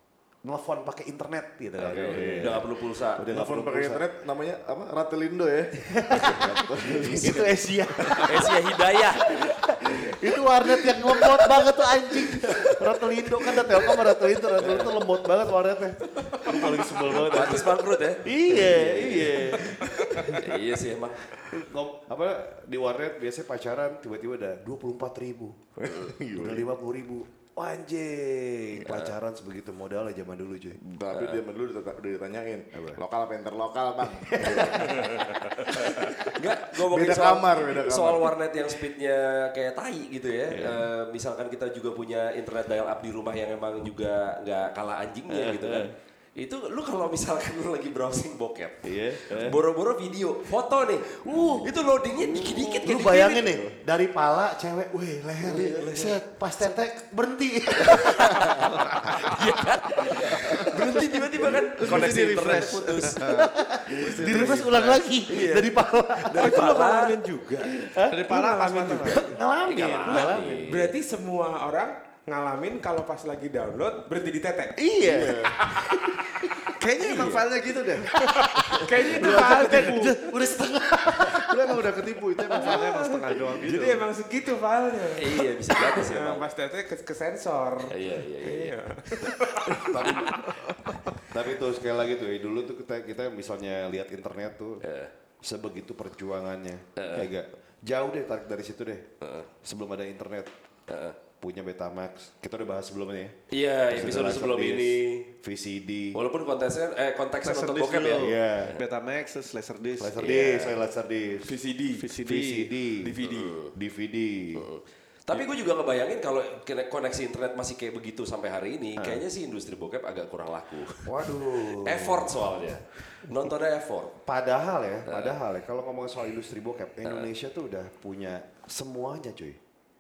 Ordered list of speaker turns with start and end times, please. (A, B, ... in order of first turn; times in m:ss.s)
0:00.4-0:04.0 A
0:01.8-0:03.3 B
0:02.0-0:08.2 C
0:05.9-0:08.5 A
0:08.2-0:09.5 B
0:09.3-0:20.5 A
0:17.1-0:19.7 B
0:20.2-0:21.3 B
0:21.4-0:25.6 A
0:25.8-0:26.7 C
0:26.3-0:30.8 A
0:28.8-0:29.1 B
0:30.8-0:35.1 C
0:31.1-0:31.4 B
0:32.7-0:33.0 A
0:34.3-0:36.2 A
0:36.1-0:53.6 B
0:36.7-0:38.3 C
0:40.5-0:40.9 A
0:45.3-0:46.0 A
0:48.8-0:49.6 A
0:51.1-0:51.7 A
0:52.3-1:01.4 A
0:55.4-0:56.2 D
0:57.9-1:03.2 B
0:58.6-0:59.1 D
1:01.7-1:05.1 D
1:03.2-1:06.7 A
1:04.2-1:04.6 E
1:05.3-1:05.6 E
1:05.3-1:05.6 B
1:06.2-1:07.2 B
1:06.3-1:09.3 E
1:07.6-1:10.8 A
1:08.1-1:09.4 D
1:09.6-1:10.9 B
1:10.0-1:14.8 E
1:14.8-1:16.7 A
1:15.0-1:15.6 C
1:15.7-1:15.9 E
1:16.8-1:18.1 D
1:16.9-1:17.4 B
1:18.2-1:20.2 E
1:18.2-1:22.8 A
1:19.2-1:20.4 D
1:21.0-1:24.0 D
1:22.6-1:30.6 E
1:25.2-1:26.5 B
1:27.9-1:28.7 B
1:29.7-1:34.8 A
1:34.8-1:35.1 B
1:35.4-1:39.1 A
1:37.0-1:37.3 B
1:39.2-1:39.5 B
1:39.6-1:40.5 A
1:40.9-1:41.2 B
1:41.4-1:43.4 A
1:43.5-1:45.3 B
1:43.9-1:46.2 A
1:46.1-1:48.8 B
1:47.4-1:50.3 D
1:48.2-1:48.8 A
1:50.0-1:51.5 A
1:50.2-1:50.8 B
1:51.4-1:52.3 E
1:51.9-1:52.7 D
1:52.2-1:53.2 A
1:53.0-1:53.6 E
1:53.2-1:53.7 B
1:53.7-1:54.6 A
1:54.5-2:01.1 B
1:59.0-1:59.2 A
2:01.0-2:02.4 A
2:01.7-2:04.2 B
2:04.2-2:09.6 A
2:05.1-2:05.4 B
2:07.0-2:07.3 B